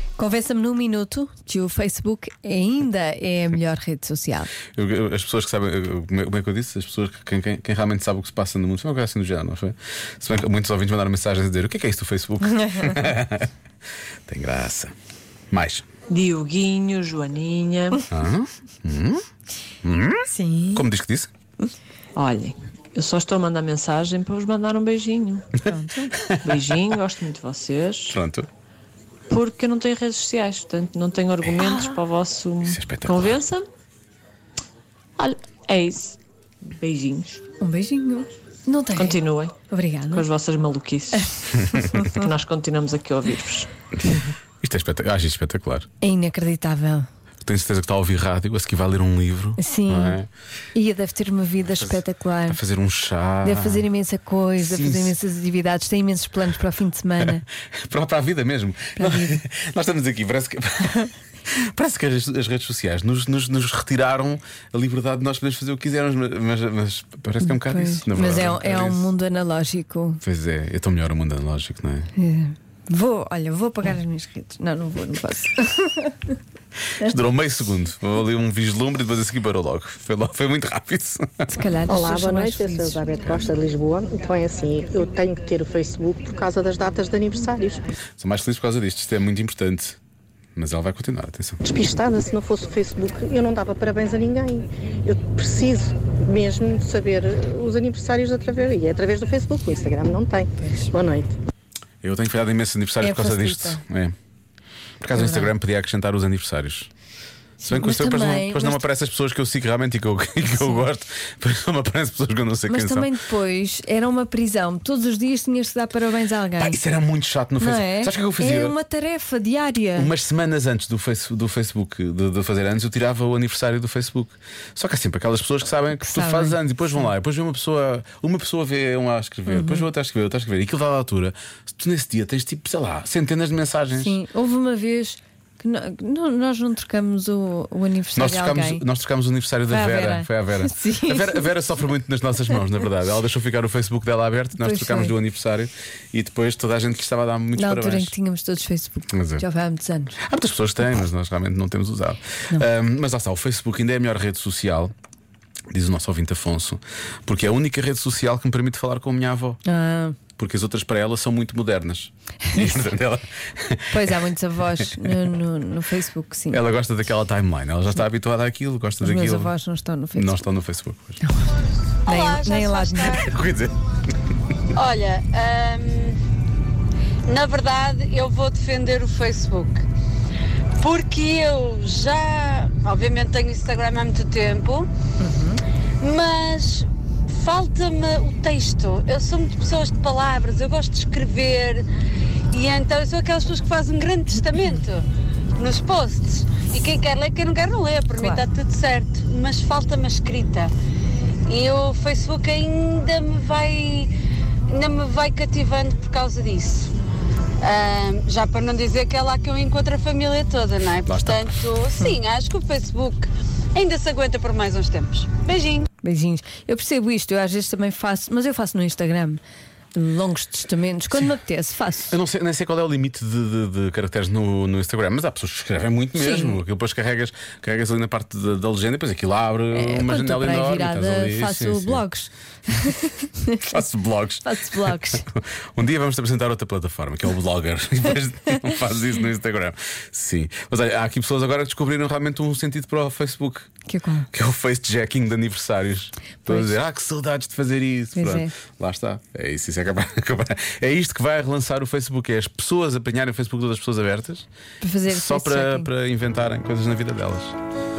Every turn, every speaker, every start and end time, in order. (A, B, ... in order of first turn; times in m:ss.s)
0:00.2-0:04.5 A
0:04.8-0:13.5 B
0:12.7-0:13.0 A
0:14.3-0:14.9 B
0:15.5-0:15.9 B
0:16.1-0:18.0 C
0:18.1-0:19.2 B
0:19.8-0:21.3 B
0:20.3-0:20.8 A
0:22.1-0:25.6 C
0:25.6-0:26.2 A
0:26.2-0:26.6 B
0:26.4-0:28.2 C
0:28.1-0:28.5 B
0:29.3-0:33.7 C
0:32.6-0:33.4 B
0:35.2-0:37.4 C
0:37.6-0:40.2 A
0:38.9-0:39.5 C
0:40.1-0:43.7 C
0:44.6-0:45.8 B
0:46.0-0:47.1 A
0:47.4-0:50.3 B
0:49.6-0:50.2 A
0:50.7-0:52.6 A
0:51.6-0:53.9 B
0:53.4-0:57.4 A
0:54.6-0:55.2 B
0:57.2-1:09.1 B
0:59.0-0:59.4 A
1:07.4-1:10.2 A
1:10.2-1:12.1 B
1:12.2-1:16.3 A
1:16.9-1:21.5 B
1:21.5-1:23.2 A
1:21.9-1:27.9 D
1:28.2-1:30.0 B
1:30.6-1:31.6 B
1:31.6-1:41.3 D
1:40.6-1:40.9 A
1:42.0-1:44.1 B
1:43.0-1:43.8 A
1:45.0-1:46.9 B
1:45.1-1:45.5 A
1:47.6-1:48.8 A
1:47.6-1:53.1 B
1:50.5-1:50.8 A
1:52.7-1:56.8 A
1:56.6-1:58.8 B
1:57.6-2:00.1 A
1:59.9-2:14.2 B
2:06.0-2:07.0 A
2:09.5-2:09.9 A
2:14.0-2:18.8 A
2:18.2-2:28.2 B
2:19.7-2:21.5 A
2:24.6-2:25.1 A
2:27.6-2:30.1 A
2:29.1-2:29.4 B
2:30.2-2:34.9 B
2:35.7-2:39.6 B
2:39.6-2:40.2 A
2:40.4-2:44.2 B
2:42.5-2:42.8 A
2:43.9-2:46.6 A
2:44.8-2:45.2 B
2:46.5-2:49.5 B
2:49.0-2:50.4 A
2:50.1-2:51.2 B
2:52.0-2:53.3 E
2:52.0-2:53.2 A
2:53.2-2:53.8 B
2:54.7-2:56.2 E
2:57.2-2:59.8 E
3:00.8-3:04.9 E
3:05.2-3:05.6 A
3:06.0-3:11.8 E
3:12.5-3:20.7 E
3:14.5-3:14.8 A
3:18.2-3:18.4 A
3:21.5-3:24.1 E
3:24.7-3:26.9 E
3:27.6-3:35.9 E
3:31.0-3:31.5 B
3:36.0-3:39.4 A
3:39.9-3:42.2 A
3:42.1-3:52.0 B
3:46.2-3:46.6 A
3:49.7-3:53.8 A
3:53.6-4:03.7 B
3:54.4-3:55.2 A
4:03.8-4:04.3 A
4:04.3-4:14.4 B
4:08.1-4:08.5 A
4:14.8-4:15.9 A
4:15.1-4:17.6 B